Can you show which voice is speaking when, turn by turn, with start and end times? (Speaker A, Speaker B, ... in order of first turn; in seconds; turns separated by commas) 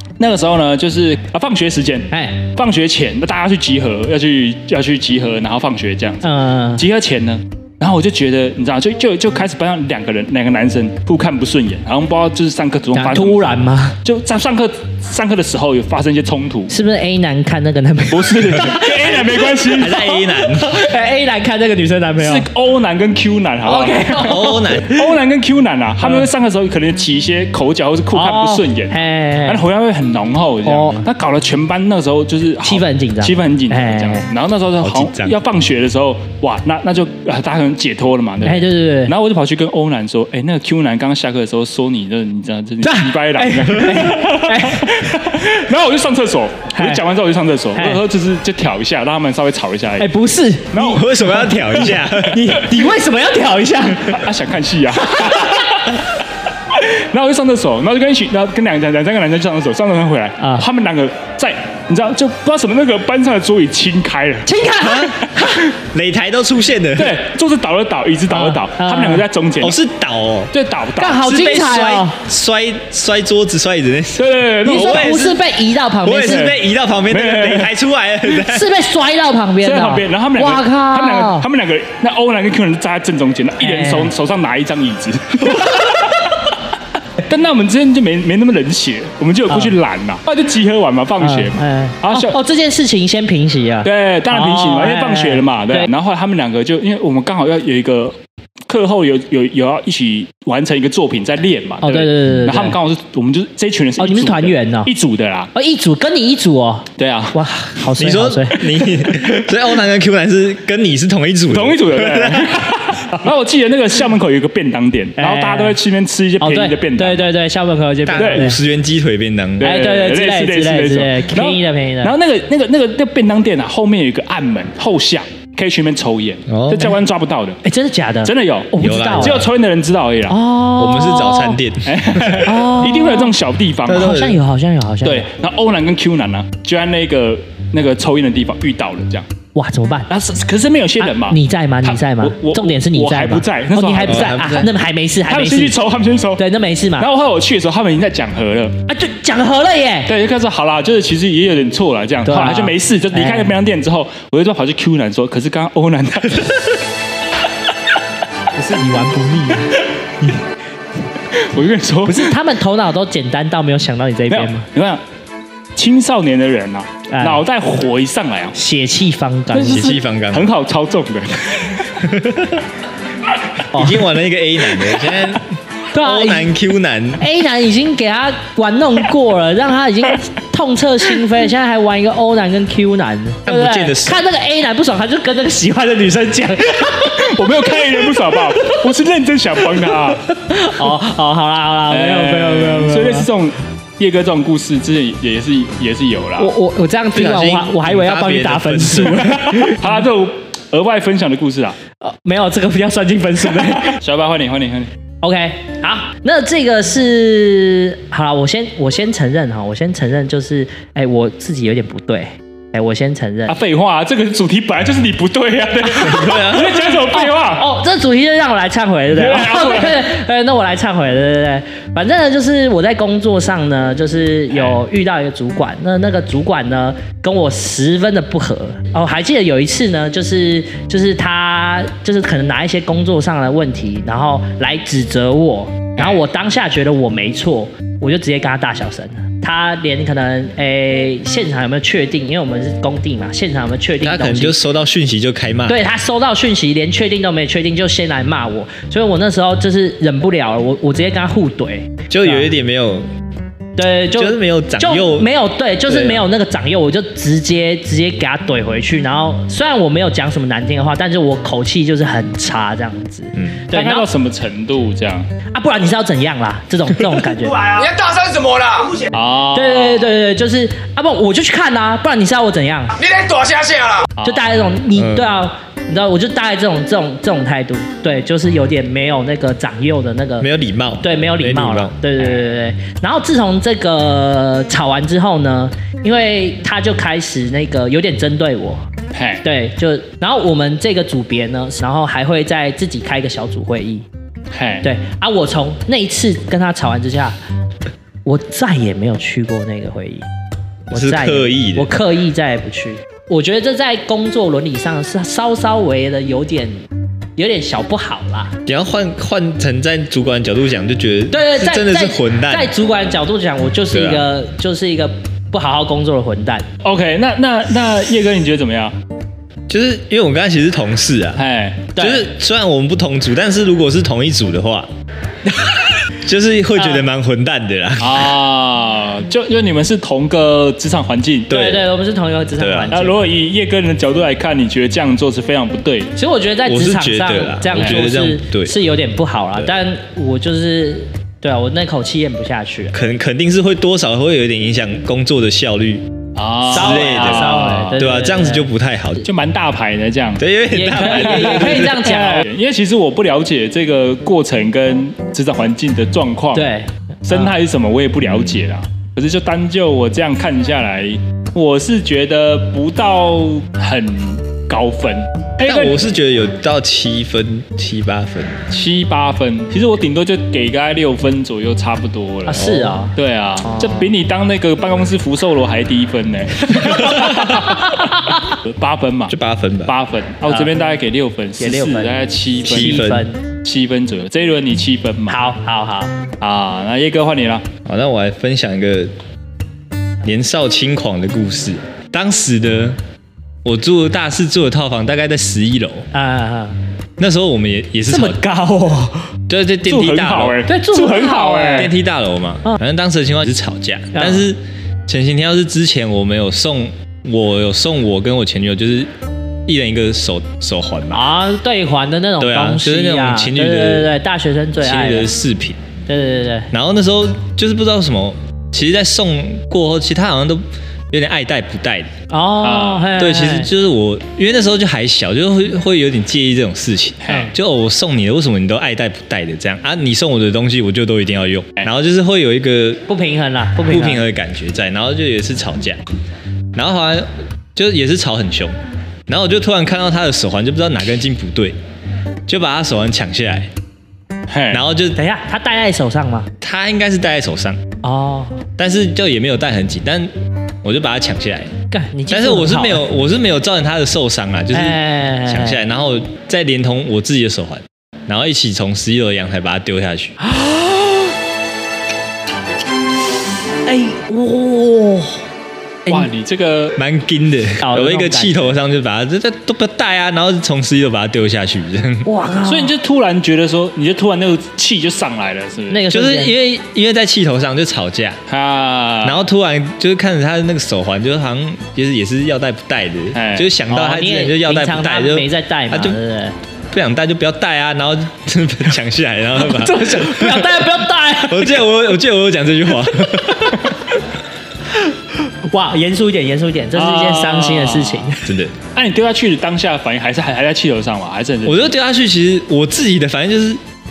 Speaker A: 0.2-6.3, Speaker B: 2.1-2.5, Speaker B: 6.2-6.8, Speaker A: 6.8-16.7, Speaker B: 12.9-14.0, Speaker B: 16.7-22.5, Speaker A: 18.1-20.1, Speaker C: 19.7-20.8, Speaker A: 22.2-50.1, Speaker B: 23.6-25.1, Speaker C: 24.2-24.9, Speaker B: 26.0-26.3, Speaker B: 28.1-29.6, Speaker B: 30.6-31.1, Speaker B: 32.6-34.3, Speaker C: 34.8-35.4, Speaker B: 38.4-39.1, Speaker B: 42.8-45.2, Speaker B: 46.7-47.0, Speaker B: 47.8-48.0, Speaker B: 50.0-51.0, Speaker A: 50.7-51.6, Speaker C: 50.8-52.6, Speaker B: 51.7-54.2, Speaker A: 54.1-56.0, Speaker B: 55.0-55.8, Speaker A: 56.7-64.5, Speaker B: 60.4-60.7, Speaker B: 64.5-65.6, Speaker C: 64.8-67.2, Speaker A: 67.0-69.8, Speaker B: 68.3-69.2, Speaker C: 69.6-70.5, Speaker A: 70.5-71.4, Speaker B: 71.0-72.2, Speaker C: 71.3-75.4, Speaker A: 74.2-75.2, Speaker B: 74.7-76.5, Speaker C: 76.0-78.7, Speaker A: 76.2-77.7, Speaker B: 78.3-81.5, Speaker A: 79.6-86.5, Speaker B: 83.6-84.1, Speaker A: 87.2-92.4, Speaker B: 89.5-89.8, Speaker B: 91.2-95.9, Speaker A: 93.8-98.2, Speaker A: 98.7-105.5, Speaker B: 101.8-102.8, Speaker B: 104.0-104.9, Speaker B: 105.5-108.7, Speaker A: 107.0-107.3, Speaker C: 108.0-112.7, Speaker A: 111.5-117.3, Speaker B: 115.2-115.8, Speaker B: 116.4-118.6, Speaker C: 118.0-119.8, Speaker A: 118.2-118.5, Speaker A: 119.6-127.6, Speaker B: 119.6-122.2, Speaker C: 126.5-127.0, Speaker B: 127.6-129.4, Speaker A: 128.2-130.4, Speaker C: 128.8-129.5, Speaker B: 130.3-131.6, Speaker C: 130.8-132.5, Speaker A: 131.9-134.2, Speaker B: 132.4-133.3, Speaker C: 133.9-134.4, Speaker B: 133.9-135.3, Speaker A: 135.0-139.3, Speaker B: 139.6-140.1, Speaker A: 140.1-144.7, Speaker B: 141.0-145.8, Speaker C: 144.0-144.7, Speaker A: 145.3-146.4, Speaker B: 146.4-147.1, Speaker A: 147.0-148.8, Speaker B: 148.9-150.1, Speaker A: 150.1-156.7, Speaker B: 152.3-153.6, Speaker B: 158.6-160.4, Speaker A: 161.3-162.3, Speaker B: 162.1-164.7, Speaker A: 164.3-165.0, Speaker A: 165.8-168.6, Speaker B: 167.1-167.4, Speaker B: 168.6-169.9, Speaker A: 169.5-172.0, Speaker C: 169.7-170.5, Speaker C: 172.0-172.7, Speaker B: 173.7-174.0, Speaker C: 173.7-177.2, Speaker B: 175.9-176.5, Speaker B: 177.2-187.3, Speaker C: 183.5-184.2, Speaker A: 187.1-190.2, Speaker B: 190.4-193.3, Speaker A: 191.9-196.5, Speaker B: 196.4-200.0, Speaker C: 197.1-199.4, Speaker A: 199.2-201.8, Speaker B: 202.0-204.0, Speaker A: 203.6-204.9, Speaker B: 205.2-213.6, Speaker A: 213.5-217.7, Speaker B: 215.9-244.6, Speaker C: 216.0-216.8, Speaker A: 219.1-220.1, Speaker A: 224.5-224.8, Speaker C: 244.0-245.8, Speaker B: 245.7-252.5, Speaker C: 252.1-253.1, Speaker B: 253.8-264.1, Speaker C: 254.1-255.3, Speaker C: 255.9-256.2, Speaker A: 263.7-265.3, Speaker B: 265.5-267.7, Speaker D: 267.6-269.1, Speaker A: 269.1-270.1, Speaker B: 269.5-273.0, Speaker D: 272.9-274.1, Speaker A: 274.2-274.5, Speaker B: 274.2-280.5, Speaker C: 274.9-275.3, Speaker C: 280.4-282.0, Speaker B: 281.0-288.8, Speaker A: 289.1-289.4, Speaker B: 289.4-294.1, Speaker A: 294.5-294.9, Speaker B: 294.8-297.4, Speaker B: 298.3-300.3, Speaker C: 300.9-301.9, Speaker B: 300.9-306.9, Speaker B: 307.4-308.6, Speaker C: 308.7-312.7, Speaker B: 311.3-316.7, Speaker C: 313.9-314.3, Speaker A: 316.8-318.9, Speaker C: 319.7-321.4, Speaker A: 321.4-321.9, Speaker B: 322.0-322.3, Speaker C: 322.0-324.9, Speaker C: 326.1-328.3, Speaker B: 326.8-327.1, Speaker A: 328.0-331.6, Speaker C: 331.5-331.9, Speaker B: 331.5-333.3, Speaker C: 332.6-333.0, Speaker A: 332.9-336.1, Speaker B: 336.2-342.9, Speaker C: 336.6-338.8, Speaker A: 337.7-338.0, Speaker C: 342.9-346.1, Speaker A: 346.4-348.0, Speaker B: 346.7-348.7, Speaker C: 346.7-349.3, Speaker A: 349.2-350.4, Speaker C: 350.4-351.9, Speaker B: 350.7-352.5, Speaker A: 351.0-356.7, Speaker B: 356.5-357.5, Speaker A: 357.3-366.0, Speaker C: 365.6-368.7, Speaker A: 368.7-379.4, Speaker B: 372.5-374.1, Speaker C: 372.6-372.9, Speaker B: 376.7-378.6, Speaker C: 379.3-379.9, Speaker A: 379.9-383.1, Speaker B: 380.5-380.8, Speaker B: 381.6-383.4, Speaker C: 382.6-383.3, Speaker A: 383.6-385.4, Speaker B: 385.3-386.1, Speaker A: 386.4-387.7, Speaker C: 387.9-389.1, Speaker C: 390.2-393.0, Speaker C: 393.6-396.1, Speaker B: 396.1-396.8, Speaker C: 397.2-398.4, Speaker B: 398.1-399.3, Speaker C: 399.5-400.6, Speaker A: 399.9-401.9, Speaker B: 400.7-401.9, Speaker C: 401.7-409.1, Speaker B: 404.1-404.5, Speaker C: 409.7-411.2, Speaker B: 411.1-415.3, Speaker C: 412.4-414.1, Speaker C: 414.8-415.8, Speaker B: 416.1-416.7, Speaker C: 416.7-422.1, Speaker B: 422.3-423.7, Speaker A: 422.6-423.1, Speaker C: 423.2-433.0, Speaker A: 427.2-427.6, Speaker B: 433.1-434.2, Speaker C: 433.9-436.0, Speaker C: 436.8-438.7, Speaker C: 439.3-441.8, Speaker C: 442.5-443.7, Speaker A: 444.5-444.8, Speaker C: 444.7-445.2, Speaker B: 445.2-446.5, Speaker C: 446.6-447.8, Speaker B: 448.0-448.6, Speaker C: 448.8-450.3, Speaker C: 450.8-451.7, Speaker B: 451.9-453.0, Speaker C: 452.3-460.4, Speaker B: 454.7-455.8, Speaker B: 460.5-461.1, Speaker B: 463.9-465.4, Speaker A: 466.1-467.0, Speaker C: 467.0-472.3, Speaker B: 467.8-468.8, Speaker B: 472.2-472.9, Speaker A: 472.6-476.1, Speaker B: 475.9-476.6, Speaker C: 476.1-478.4, Speaker A: 478.5-479.4, Speaker C: 479.2-486.2, Speaker A: 483.3-483.7, Speaker B: 483.9-486.6, Speaker C: 486.9-490.9, Speaker B: 489.6-491.8, Speaker C: 491.5-493.9, Speaker B: 495.7-498.5, Speaker A: 496.9-498.3, Speaker C: 498.4-498.8, Speaker A: 498.9-501.9, Speaker C: 501.6-503.8